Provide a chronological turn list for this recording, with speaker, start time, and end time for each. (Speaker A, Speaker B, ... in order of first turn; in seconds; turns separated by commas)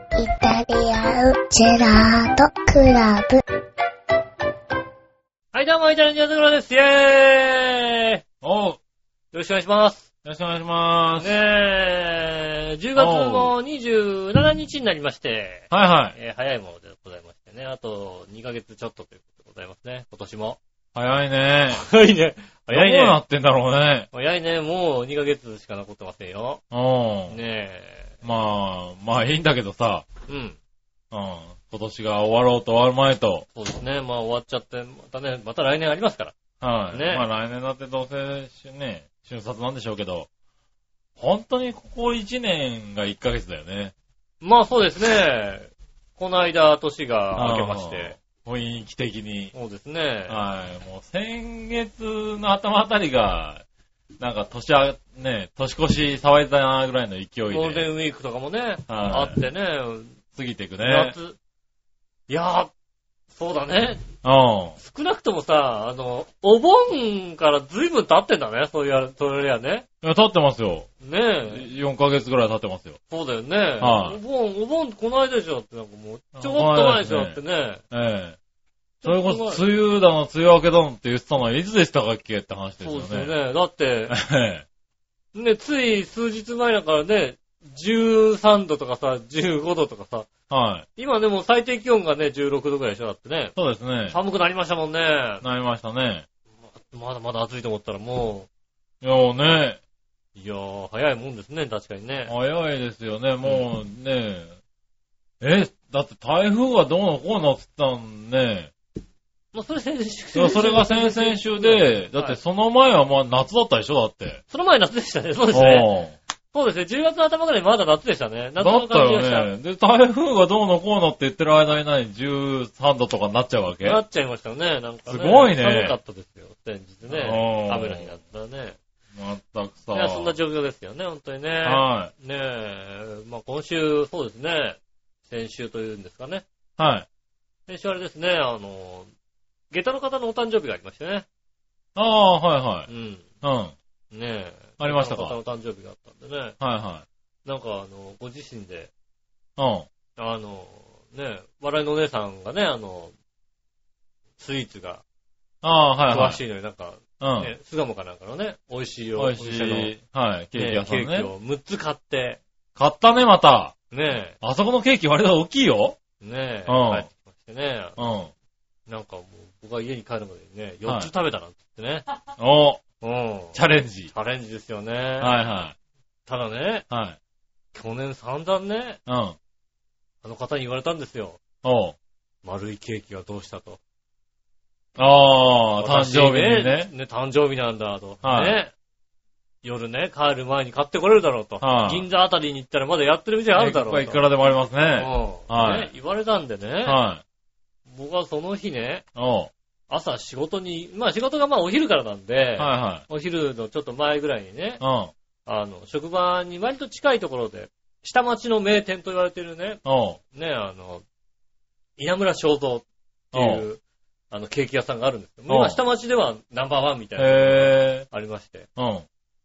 Speaker A: 0.2-3.4, Speaker B: 5.5-8.2, Speaker C: 8.4-8.8, Speaker B: 9.3-10.1, Speaker C: 10.2-11.4, Speaker B: 11.2-20.6, Speaker C: 12.9-13.5, Speaker C: 15.7-16.1, Speaker C: 20.9-21.8, Speaker B: 21.7-23.2, Speaker C: 22.7-24.1, Speaker B: 24.1-26.6, Speaker C: 26.7-27.4, Speaker B: 27.3-28.1, Speaker C: 28.2-30.1, Speaker B: 30.3-30.6, Speaker C: 31.1-33.5, Speaker B: 33.5-36.3, Speaker C: 36.6-40.3, Speaker B: 36.9-37.2, Speaker C: 41.2-43.9, Speaker B: 44.4-48.2, Speaker C: 47.3-49.5, Speaker B: 49.5-50.4, Speaker C: 50.3-53.6, Speaker C: 54.2-57.9, Speaker B: 57.5-60.1, Speaker C: 58.9-59.4, Speaker C: 60.3-61.1, Speaker B: 60.8-61.4, Speaker B: 62.3-62.7, Speaker B: 63.3-64.1, Speaker C: 64.2-64.8, Speaker B: 64.8-69.8, Speaker C: 70.0-70.9, Speaker B: 71.0-71.7, Speaker C: 71.5-73.0, Speaker B: 73.1-77.8, Speaker C: 73.8-74.2, Speaker C: 76.3-77.4, Speaker C: 77.9-78.4, Speaker B: 79.0-79.6, Speaker C: 79.0-83.3, Speaker B: 82.8-84.2, Speaker C: 84.1-84.6, Speaker B: 85.3-90.3, Speaker C: 90.5-90.9, Speaker B: 91.0-93.5, Speaker C: 93.5-94.2, Speaker B: 94.1-95.4, Speaker C: 95.4-96.2, Speaker B: 96.9-98.5, Speaker C: 99.0-99.8, Speaker B: 100.3-102.3, Speaker C: 102.3-104.5, Speaker C: 105.4-108.7, Speaker B: 109.5-112.4, Speaker C: 110.3-114.4, Speaker B: 114.5-115.9, Speaker C: 115.5-116.2, Speaker B: 116.5-119.5, Speaker C: 118.6-124.0, Speaker B: 123.8-128.8, Speaker C: 125.1-126.0, Speaker C: 127.1-128.1, Speaker C: 129.1-130.3, Speaker B: 129.9-136.4, Speaker C: 131.6-132.1, Speaker C: 136.8-137.1, Speaker B: 137.7-139.1, Speaker B: 139.7-141.2, Speaker C: 141.9-142.9, Speaker B: 142.9-143.2, Speaker C: 143.4-143.7, Speaker B: 144.1-146.5, Speaker C: 144.8-145.3, Speaker C: 146.6-147.0, Speaker B: 147.4-148.9, Speaker C: 149.6-149.9, Speaker B: 150.2-153.1, Speaker B: 154.4-155.0, Speaker C: 155.6-156.4, Speaker B: 156.1-159.9, Speaker C: 157.2-157.5, Speaker C: 159.2-161.3, Speaker B: 160.5-162.4, Speaker C: 162.8-163.7, Speaker B: 163.9-164.3, Speaker C: 164.4-166.0, Speaker B: 166.2-168.0, Speaker C: 166.7-167.1, Speaker C: 168.0-168.3, Speaker B: 168.9-172.0, Speaker C: 170.8-171.1, Speaker C: 172.4-172.8, Speaker B: 173.0-173.6, Speaker C: 173.5-174.1, Speaker B: 174.1-175.3, Speaker C: 175.2-175.7, Speaker B: 176.3-176.8, Speaker C: 176.9-177.2, Speaker B: 177.7-179.0, Speaker C: 179.1-179.4, Speaker B: 180.2-181.4, Speaker C: 181.6-181.9, Speaker B: 182.4-183.8, Speaker C: 184.9-186.9, Speaker B: 185.8-188.7, Speaker C: 188.2-188.6, Speaker B: 189.6-194.2, Speaker C: 191.6-192.0, Speaker C: 193.5-195.9, Speaker B: 195.0-197.0, Speaker C: 196.8-197.2, Speaker B: 197.9-199.0, Speaker C: 199.2-199.5, Speaker B: 199.9-204.8, Speaker C: 202.6-203.0, Speaker C: 204.8-205.1, Speaker B: 205.4-209.8, Speaker C: 209.8-210.2, Speaker B: 210.3-211.0, Speaker B: 212.0-213.8, Speaker C: 213.3-213.6, Speaker B: 214.3-218.7, Speaker C: 215.5-215.8, Speaker C: 217.2-218.1, Speaker C: 218.8-219.0